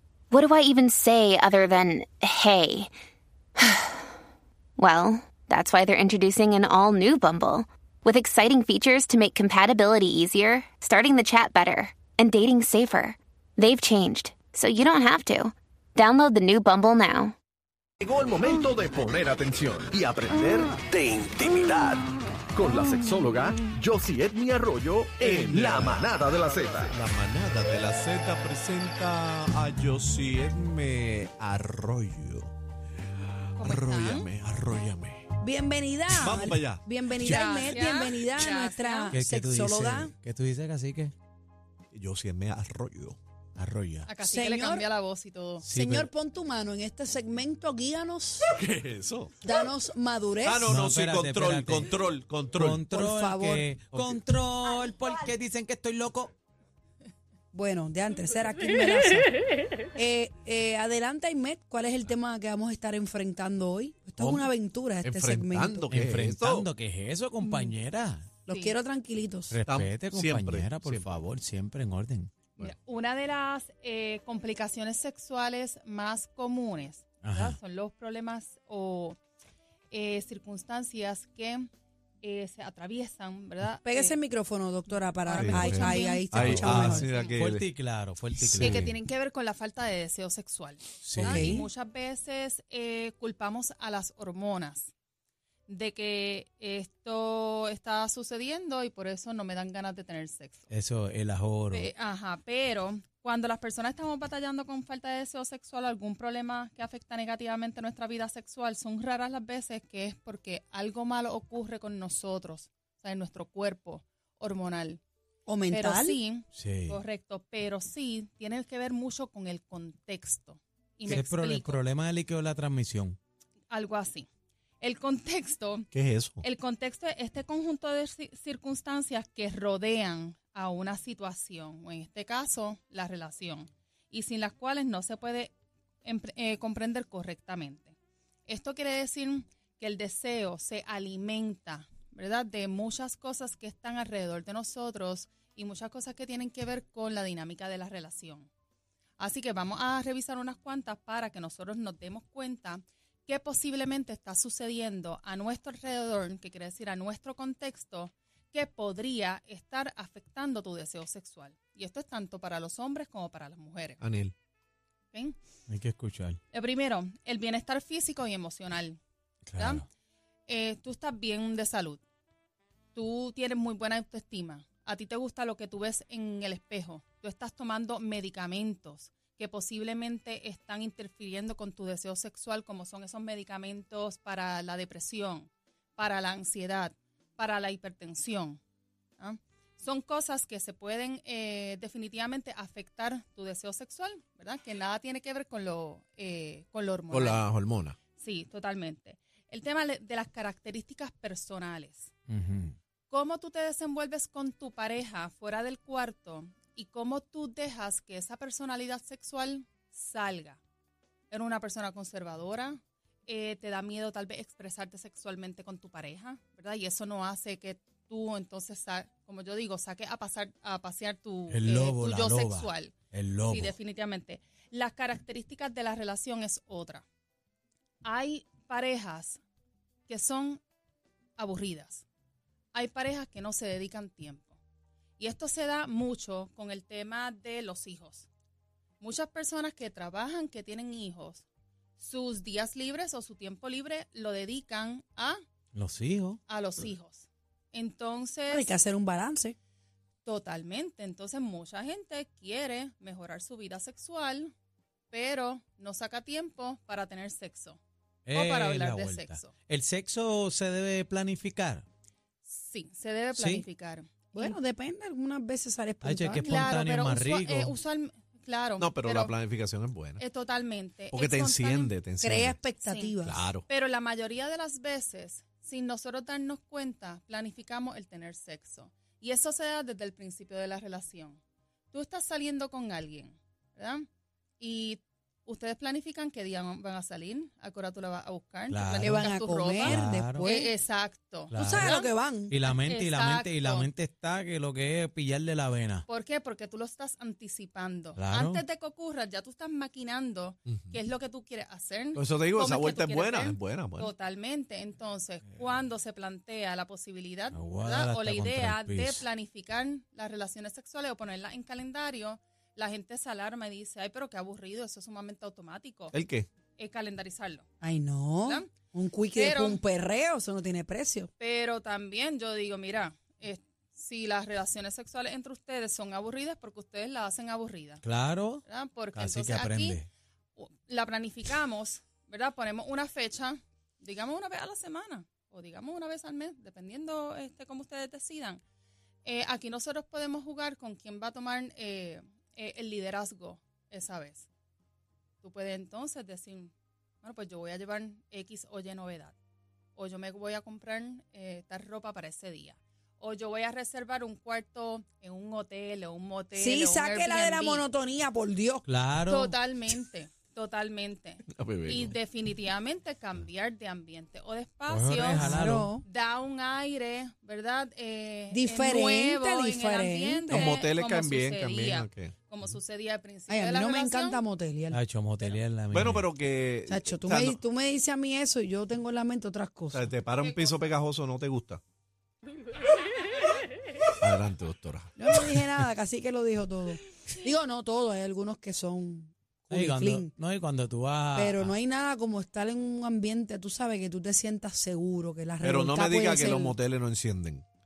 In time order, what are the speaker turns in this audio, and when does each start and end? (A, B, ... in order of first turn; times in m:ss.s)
0:00.3-0:02.9 A
0:03.6-0:04.0 A
0:04.8-0:17.3 A
0:18.0-0:27.0 B
0:25.2-0:32.5 C
0:33.3-0:35.3 C
0:33.6-0:34.3 D
0:35.4-0:40.1 E
0:36.1-0:36.8 C
0:37.2-0:39.2 D
0:39.1-0:41.1 F
0:41.9-0:43.2 C
0:43.6-0:44.1 F
0:44.1-0:45.6 D
0:44.2-0:44.9 E
0:45.6-0:46.1 F
0:45.7-0:48.5 E
0:48.5-0:49.4 C
0:49.4-0:50.8 E
0:50.4-0:52.8 C
0:50.7-0:56.3 F
0:52.9-0:53.7 E
0:53.9-0:54.2 C
0:57.5-0:59.3 E
1:00.0-1:05.9 E
1:04.2-1:04.4 F
1:05.0-1:06.7 C
1:05.9-1:08.3 F
1:07.4-1:07.8 D
1:08.5-1:09.6 E
1:08.5-1:08.8 D
1:09.5-1:12.3 F
1:09.7-1:11.1 C
1:12.6-1:19.2 D
1:17.2-1:17.6 F
1:19.9-1:21.7 D
1:22.2-1:24.2 D
1:23.8-1:27.1 E
1:25.2-1:27.4 D
1:25.4-1:27.6 C
1:26.3-1:29.0 F
1:28.5-1:28.9 C
1:28.6-1:34.9 D
1:31.0-1:31.6 F
1:31.2-1:31.7 E
1:35.7-1:40.7 D
1:40.7-1:41.9 F
1:41.7-1:55.0 D
1:55.5-1:56.2 E
1:55.7-2:01.8 D
1:56.5-1:57.0 F
2:01.1-2:03.2 F
2:03.7-2:04.3 D
2:04.8-2:15.5 D
2:05.9-2:06.4 C
2:16.0-2:18.0 D
2:18.5-2:28.5 D
2:29.2-2:44.0 D
2:44.0-2:44.3 C
2:45.1-2:45.4 D
2:45.7-2:46.4 F
2:46.5-2:49.0 D
2:49.5-2:49.8 F
2:49.6-2:49.8 D
2:50.5-2:52.0 D
2:52.9-3:08.6 D
3:09.2-3:17.4 D
3:17.1-3:18.0 C
3:18.2-3:22.1 D
3:22.3-3:22.8 F
3:23.1-3:30.6 D
3:31.3-3:47.0 D
3:41.5-3:43.7 F
3:48.0-3:49.4 D
3:50.1-3:50.6 D
3:51.4-3:52.0 D
3:52.7-3:54.6 D
3:55.2-3:58.3 D
3:59.0-4:01.4 D
4:02.0-4:05.4 D
4:05.7-4:06.4 F
4:06.5-4:08.7 D
4:08.5-4:09.6 E
4:10.2-4:14.5 D
4:15.1-4:17.8 D
4:18.3-4:21.8 F
4:18.3-4:19.5 D
4:22.5-4:24.6 D
4:23.3-4:23.7 F
4:24.3-4:26.7 E
4:26.0-4:27.8 F
4:26.4-4:29.3 D
4:28.8-4:30.2 C
4:30.2-4:31.9 D
4:31.1-4:32.6 C
4:32.2-4:33.5 E
4:32.8-4:33.2 D
4:33.2-4:33.6 C
4:33.7-4:41.4 D
4:41.9-4:44.1 D
4:44.6-4:53.9 D
4:48.7-4:49.3 F
4:49.0-4:50.7 E
4:49.8-4:50.4 F
4:51.5-4:52.0 F
4:51.5-4:52.6 E
4:52.5-4:56.1 F
4:56.1-5:16.1 D
4:58.2-4:58.6 F
5:02.2-5:04.1 C
5:07.5-5:09.2 F
5:16.1-5:16.5 C
5:16.8-5:17.7 D
5:17.8-5:21.3 E
5:18.4-5:18.7 D
5:19.3-5:19.8 D
5:21.4-5:28.0 D
5:28.0-5:30.1 F
5:28.6-5:30.0 D
5:30.6-5:38.6 D
5:39.2-5:44.5 D
5:45.4-5:49.4 D
5:50.0-5:57.9 D
5:56.6-5:58.9 E
5:58.8-5:59.5 F
5:59.3-6:05.5 D
6:01.5-6:02.2 C
6:04.9-6:05.9 F
6:05.4-6:06.0 E
6:06.0-6:14.4 D
6:08.5-6:10.6 E
6:10.5-6:12.3 C
6:13.5-6:15.0 E
6:14.9-6:16.3 F
6:15.9-6:17.6 C
6:16.9-6:20.1 E
6:19.9-6:21.8 C
6:20.4-6:20.8 D
6:24.2-6:25.6 C
6:25.2-6:30.3 E
6:29.7-6:31.8 F
6:31.3-6:36.8 E
6:35.6-6:37.6 C